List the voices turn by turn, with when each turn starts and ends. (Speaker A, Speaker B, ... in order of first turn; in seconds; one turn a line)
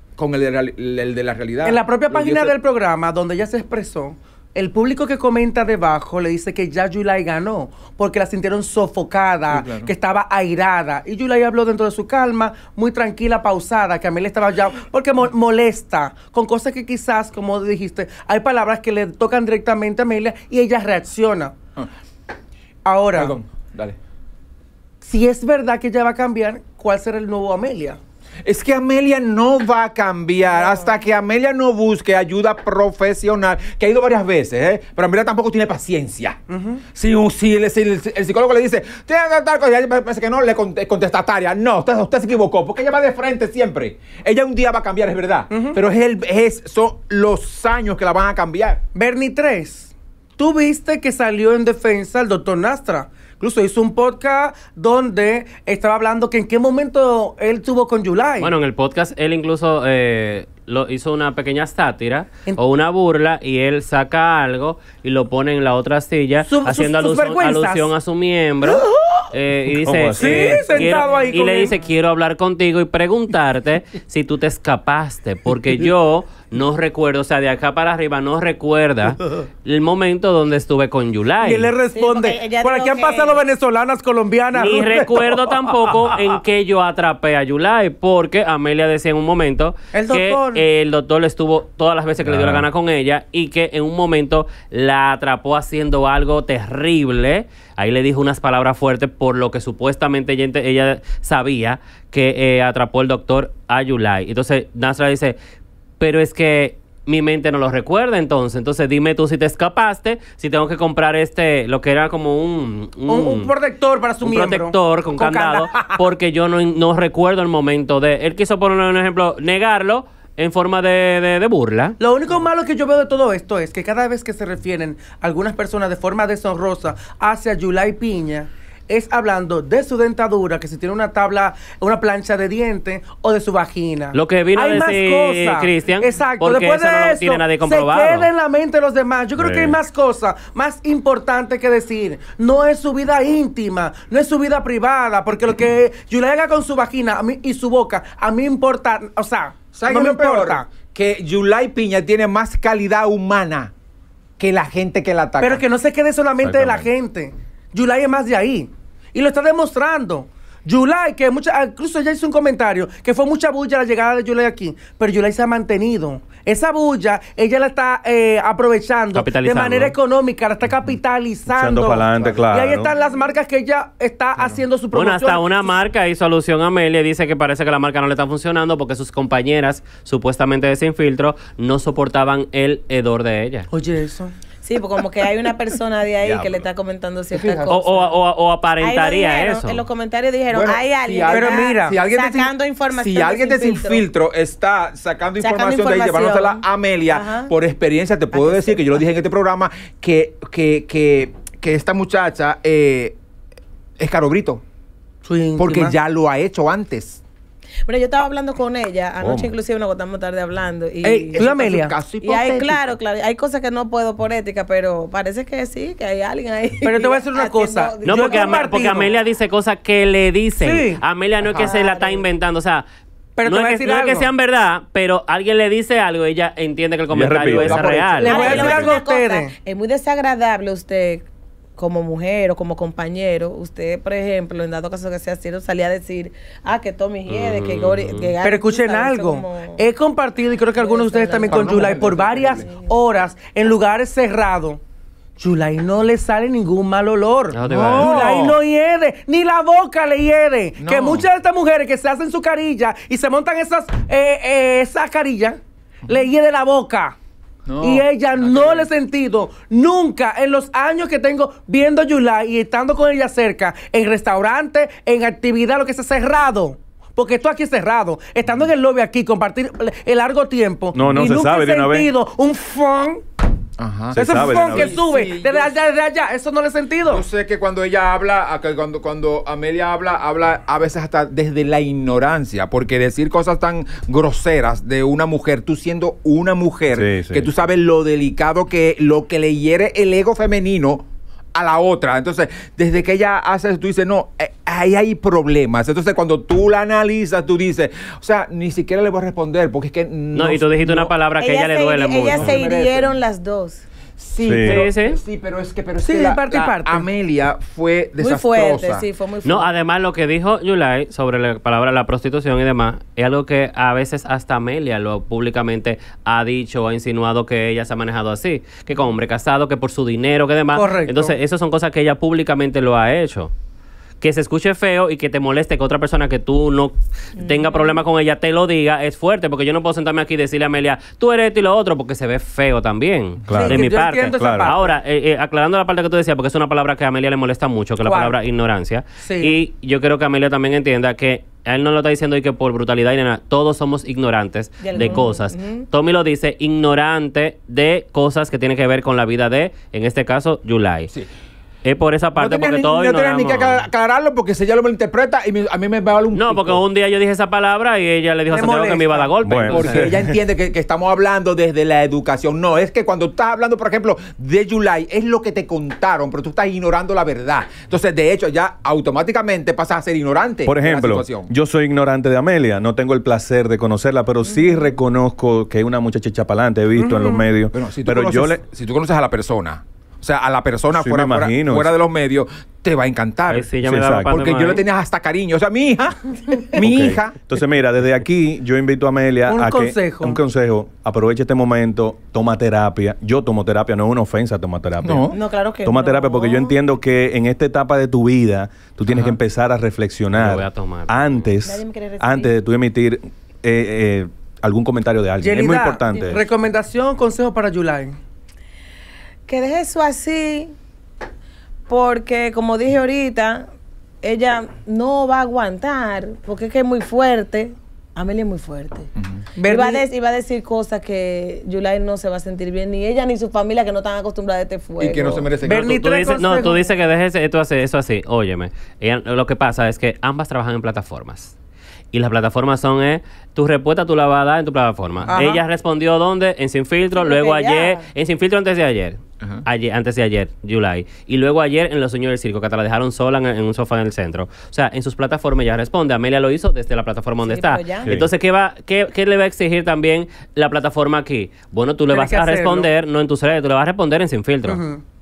Speaker A: 0.2-2.5
Speaker B: 1.6-21.6
Speaker A: 9.5-9.9
Speaker B: 22.9-23.4
Speaker A: 23.1-24.0
Speaker B: 25.0-28.0
Speaker A: 28.4-36.4
Speaker B: 36.5-36.8
Speaker A: 36.9-48.8
Speaker B: 45.5-45.8
Speaker B: 49.0-58.5
Speaker C: 58.4-81.7
Speaker B: 66.5-67.9
Speaker B: 68.6-69.3
Speaker D: 69.7-70.8
Speaker B: 70.2-71.8
Speaker B: 81.4-86.2
Speaker E: 81.9-83.4
Speaker C: 84.5-105.4
Speaker B: 89.9-90.6
Speaker D: 92.2-92.7
Speaker C: 106.0-113.5
Speaker B: 113.1-116.0
Speaker C: 114.2-122.0
Speaker B: 122.0-150.7
Speaker C: 134.1-138.3
Speaker D: 139.4-139.8
Speaker A: 149.7-153.7
Speaker A: 154.4-155.6
Speaker B: 155.4-175.6
Speaker D: 156.4-156.9
Speaker C: 169.1-170.0
Speaker D: 171.5-172.9
Speaker C: 174.9-183.7
Speaker B: 183.7-184.3
Speaker E: 184.6-188.2
Speaker D: 186.2-186.6
Speaker A: 187.3-187.7
Speaker C: 187.7-189.8
Speaker E: 188.8-194.0
Speaker A: 190.5-203.2
Speaker B: 191.3-192.0
Speaker E: 195.4-197.5
Speaker E: 198.3-198.8
Speaker A: 204.0-204.6
Speaker B: 205.2-205.9
Speaker A: 205.6-207.2
Speaker E: 207.9-211.4
Speaker D: 209.2-209.5
Speaker A: 211.0-212.8
Speaker B: 211.4-212.0
Speaker E: 212.2-218.8
Speaker B: 216.8-219.1
Speaker C: 218.1-222.8
Speaker B: 220.6-221.0
Speaker E: 221.6-222.2
Speaker B: 223.4-224.3
Speaker C: 223.5-228.9
Speaker D: 227.1-228.9
Speaker A: 227.6-228.2
Speaker B: 228.2-229.6
Speaker E: 228.2-231.3
Speaker E: 231.8-239.8
Speaker C: 237.3-238.3
Speaker B: 238.4-244.8
Speaker E: 240.8-242.0
Speaker A: 241.4-242.7
Speaker E: 242.6-242.9
Speaker B: 245.4-257.2
Speaker C: 247.5-248.4
Speaker A: 247.7-248.6
Speaker A: 250.8-251.3
Speaker A: 257.7-258.9
Speaker B: 257.8-273.2
Speaker D: 270.9-272.1
Speaker A: 273.8-275.8
Speaker D: 274.1-275.0
Speaker B: 274.1-277.2
Speaker A: 277.1-301.1
Speaker D: 286.9-287.5
Speaker C: 300.3-302.6
Speaker E: 301.4-303.8
Speaker A: 302.3-303.1
Speaker A: 304.2-309.1
Speaker D: 304.4-304.8
Speaker C: 304.6-305.2
Speaker B: 306.0-307.1
Speaker E: 308.2-309.7
Speaker C: 309.4-323.5
Speaker B: 320.7-321.4
Speaker C: 324.2-351.1
Speaker D: 333.5-334.7
Speaker B: 333.6-334.9
Speaker B: 338.0-338.4
Speaker B: 339.2-339.6
Speaker E: 344.8-345.9
Speaker C: 351.8-353.9
Speaker A: 352.4-356.8
Speaker C: 356.3-360.1
Speaker B: 358.5-359.3
Speaker D: 359.4-360.4
Speaker A: 359.7-371.5
Speaker D: 370.6-378.6
Speaker A: 377.7-383.7
Speaker D: 380.9-381.9
Speaker C: 383.5-384.9
Speaker D: 383.9-384.4
Speaker A: 384.3-387.4
Speaker D: 386.8-395.3
Speaker B: 389.5-390.4
Speaker A: 395.0-395.4
Speaker E: 395.3-396.8
Speaker D: 395.8-406.4
Speaker A: 399.1-399.4
Speaker C: 400.3-401.3
Speaker E: 401.6-402.5
Speaker B: 405.4-408.2
Speaker E: 409.5-410.8
Speaker E: 411.9-413.7
Speaker E: 414.2-419.1
Speaker A: 419.2-419.4
Speaker B: 419.6-420.0
Speaker E: 419.6-425.5
Speaker A: 425.0-425.9
Speaker B: 425.6-426.9
Speaker C: 425.8-431.5
Speaker C: 432.1-454.8
Speaker B: 435.3-435.6
Speaker E: 437.1-438.1
Speaker E: 447.4-448.1
Speaker B: 452.1-452.9
Speaker B: 454.7-455.0